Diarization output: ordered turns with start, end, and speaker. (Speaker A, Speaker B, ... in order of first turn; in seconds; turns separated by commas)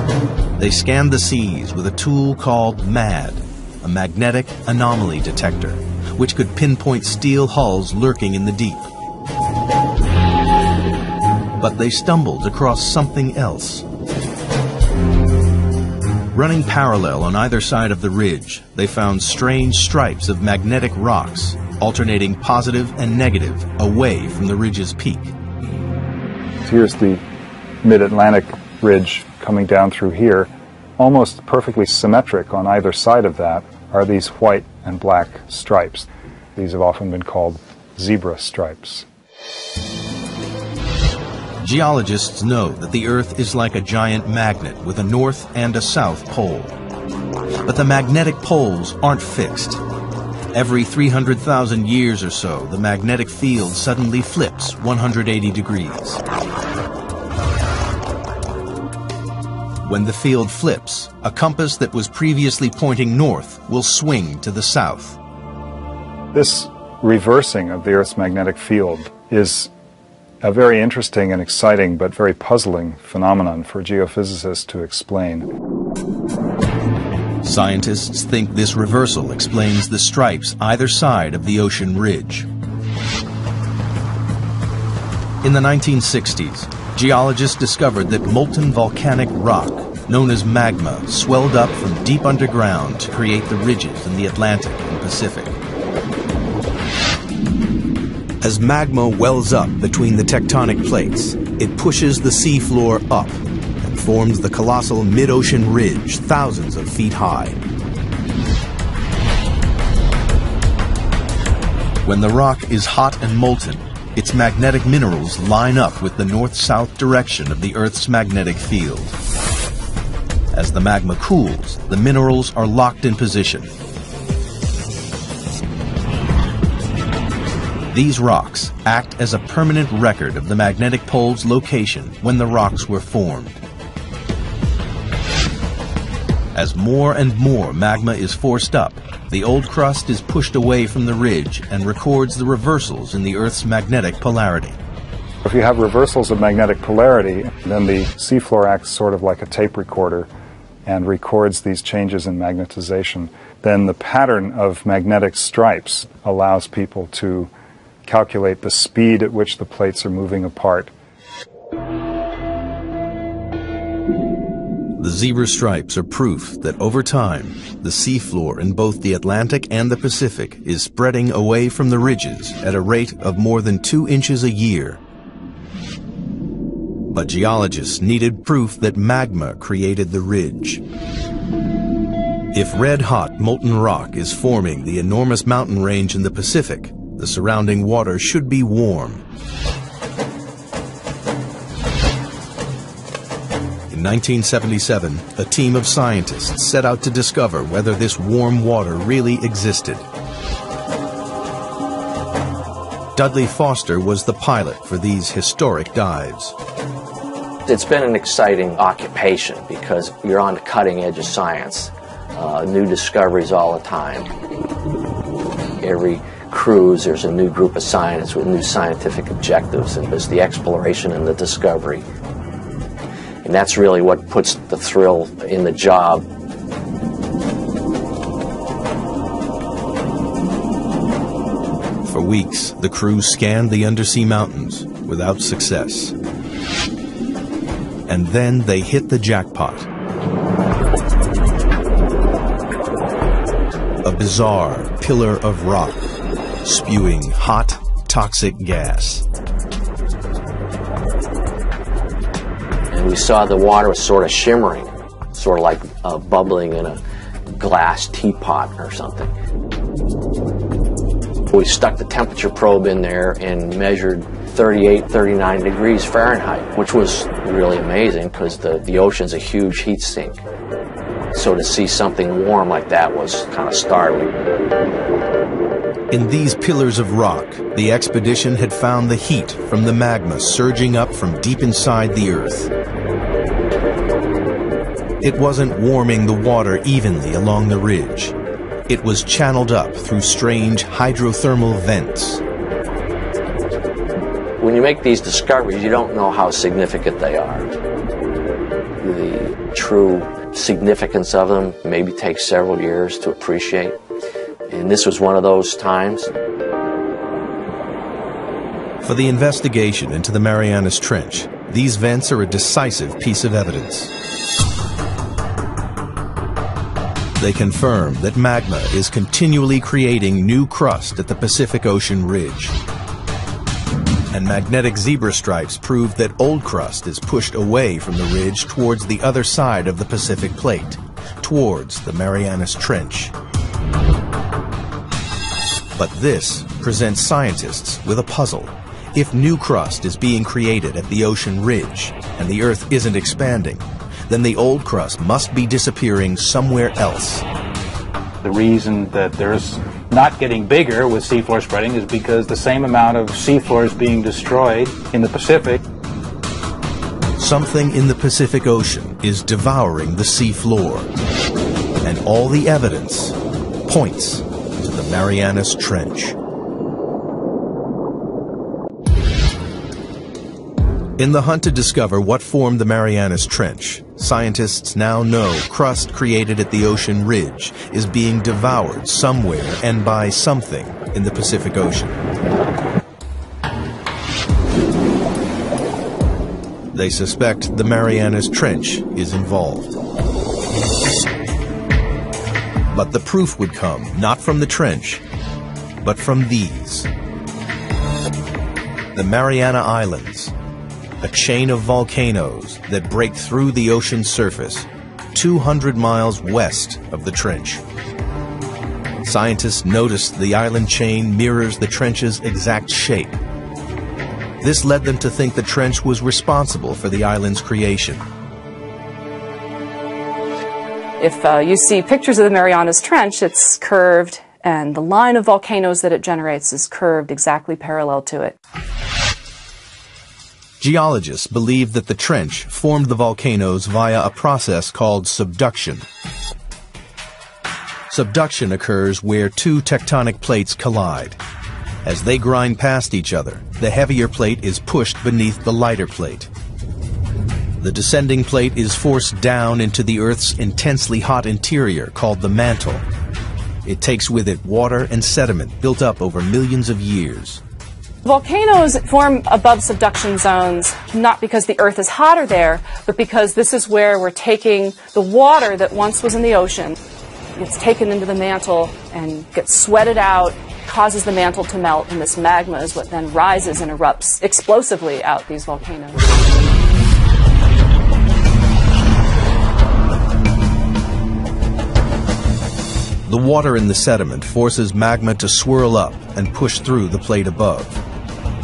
Speaker A: 0.6-8.9, Speaker A: 11.6-13.8, Speaker A: 16.3-25.3, Speaker B: 26.6-27.2, Speaker B: 27.8-39.1, Speaker A: 41.6-46.8, Speaker A: 47.6-49.8, Speaker A: 50.5-56.2, Speaker A: 59.8-65.2, Speaker B: 66.3-69.7, Speaker B: 70.4-75.5, Speaker A: 77.4-82.5, Speaker A: 85.4-95.5, Speaker A: 98.4-107.6, Speaker A: 112.0-119.2, Speaker A: 120.5-123.7, Speaker A: 127.9-133.6, Speaker A: 136.5-144.8, Speaker B: 145.4-150.3, Speaker B: 150.8-157.5, Speaker B: 158.0-160.9, Speaker A: 165.0-175.0, Speaker A: 177.1-180.8, Speaker A: 182.5-189.2, Speaker A: 193.9-200.1, Speaker A: 203.1-206.5, Speaker C: 207.7-214.3, Speaker C: 215.8-222.1, Speaker C: 223.4-226.3, Speaker A: 232.0-236.1, Speaker A: 238.1-239.9, Speaker A: 244.0-246.0, Speaker A: 246.6-249.2, Speaker C: 252.9-257.0, Speaker C: 257.6-259.3, Speaker C: 261.5-270.4, Speaker C: 271.3-274.4, Speaker A: 276.1-282.7, Speaker A: 285.2-288.4, Speaker A: 288.9-292.4, Speaker C: 294.6-297.7, Speaker C: 299.0-304.0, Speaker C: 304.7-306.3, Speaker A: 309.0-314.1, Speaker A: 317.4-322.8, Speaker A: 324.3-333.3, Speaker A: 335.9-347.4, Speaker D: 348.4-355.8, Speaker A: 357.4-361.1, Speaker A: 362.0-366.4, Speaker A: 371.2-382.2, Speaker A: 386.9-389.9, Speaker A: 392.9-395.2, Speaker A: 396.0-397.1, Speaker A: 399.1-400.5, Speaker A: 401.2-407.8, Speaker A: 409.2-413.4, Speaker A: 414.6-418.2, Speaker E: 421.2-428.6, Speaker A: 430.8-436.1, Speaker A: 438.1-441.4, Speaker A: 442.0-446.5, Speaker A: 447.8-453.0, Speaker A: 453.8-457.6, Speaker E: 458.2-466.9, Speaker E: 467.6-476.4, Speaker A: 483.2-488.0